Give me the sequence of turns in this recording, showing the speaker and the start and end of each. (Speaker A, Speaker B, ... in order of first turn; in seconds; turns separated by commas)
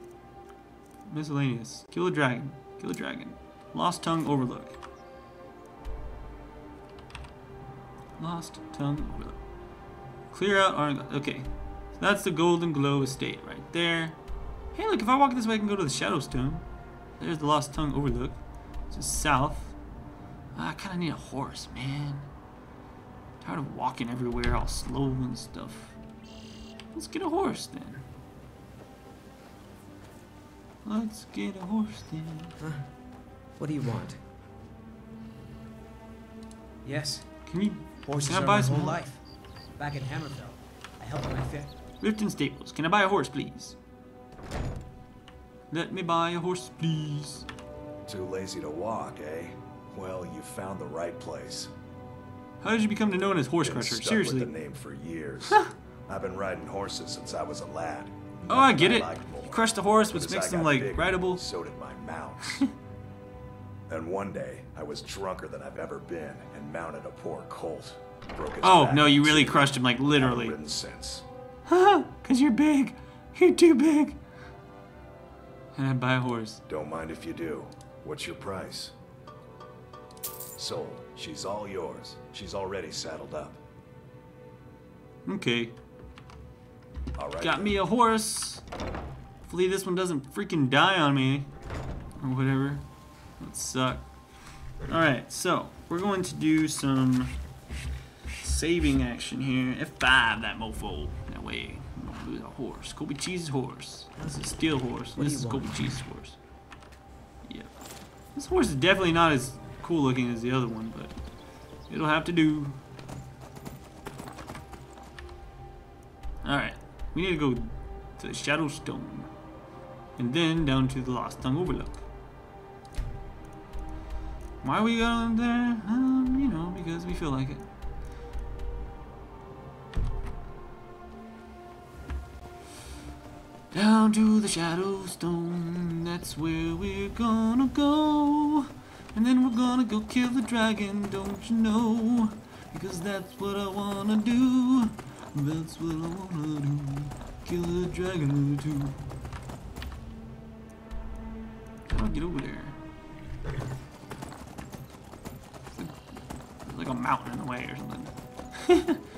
Speaker A: 1.1-4.7, Speaker A: 8.2-9.4, Speaker A: 10.3-14.2, Speaker A: 14.7-16.6, Speaker A: 17.2-18.4, Speaker A: 18.9-19.8, Speaker A: 20.5-22.3, Speaker A: 23.4-25.9, Speaker A: 26.9-28.0, Speaker A: 30.8-32.5, Speaker B: 33.6-34.2, Speaker B: 36.8-39.2, Speaker A: 37.5-39.0, Speaker B: 39.8-41.7, Speaker A: 42.0-43.8, Speaker A: 45.7-47.5, Speaker C: 48.1-51.7, Speaker A: 52.6-54.5, Speaker C: 53.6-62.6, Speaker A: 58.5-61.4, Speaker C: 63.9-71.2, Speaker A: 68.6-70.6, Speaker A: 71.7-74.2, Speaker A: 75.7-76.6, Speaker C: 76.7-78.9, Speaker C: 80.5-83.6, Speaker A: 85.2-85.7, Speaker C: 87.2-87.8, Speaker A: 87.4-88.6, Speaker A: 89.5-91.5, Speaker A: 92.2-92.8, Speaker A: 93.4-94.1, Speaker A: 94.9-97.3, Speaker A: 98.4-106.3, Speaker B: 104.2-104.5, Speaker B: 105.2-106.0, Speaker A: 107.4-107.7, Speaker A: 108.3-111.1, Speaker A: 111.9-112.8, Speaker A: 116.4-119.3, Speaker A: 120.2-122.0, Speaker A: 124.6-127.6, Speaker A: 133.7-149.0, Speaker A: 151.9-152.8, Speaker A: 156.6-159.0